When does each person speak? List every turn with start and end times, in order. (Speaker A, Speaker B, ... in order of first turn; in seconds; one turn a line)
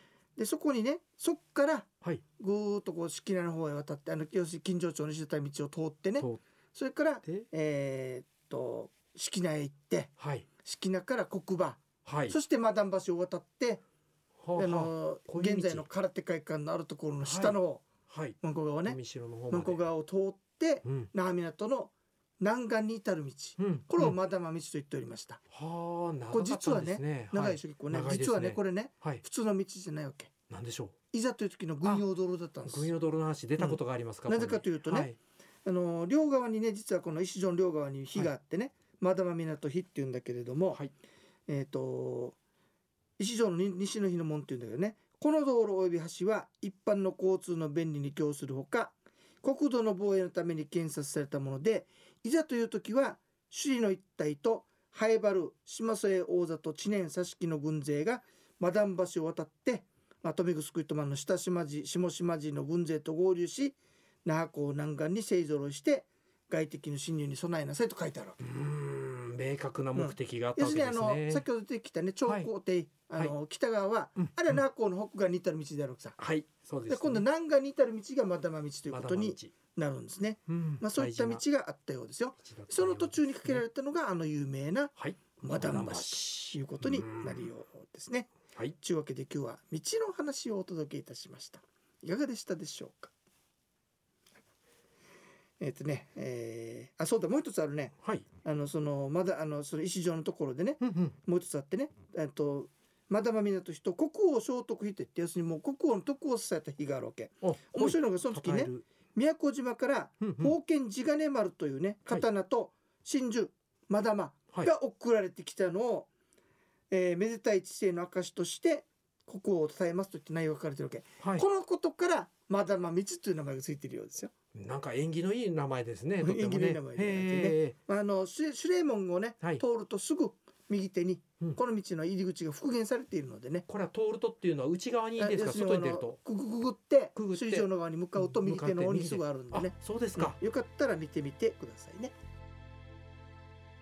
Speaker A: 0.4-10.1
Speaker B: 10.2-10.5
Speaker A: 10.6-13.8
Speaker B: 12.1-12.4
Speaker B: 14.4-15.9
Speaker A: 14.6-17.8
Speaker B: 17.2-19.8
Speaker A: 18.4-19.0
Speaker A: 19.5-25.4
Speaker B: 20.9-21.1
Speaker B: 23.6-24.2
Speaker B: 25.5-29.2
Speaker A: 26.3-30.3
Speaker B: 30.5-30.9
Speaker A: 31.1-32.9
Speaker B: 32.7-35.2
Speaker A: 33.6-35.1
Speaker A: 35.6-40.8
Speaker A: 41.5-42.4
Speaker A: 43.2-68.4
Speaker B: 68.4-71.5
Speaker A: 70.0-76.2
Speaker B: 74.2-74.6
Speaker B: 76.2-77.2
Speaker A: 76.9-93.1
Speaker B: 78.9-79.5
Speaker B: 80.5-81.4
Speaker B: 82.4-83.7
Speaker B: 85.0-87.5
Speaker A: 95.6-116.1
Speaker B: 98.0-98.3
Speaker B: 100.8-101.2
Speaker B: 107.4-108.8
Speaker B: 110.2-110.6
Speaker A: 116.9-124.3
Speaker B: 121.2-121.5
Speaker B: 124.5-127.8
Speaker A: 126.2-133.7
Speaker B: 133.7-136.2
Speaker A: 135.2-142.1
Speaker B: 137.2-140.4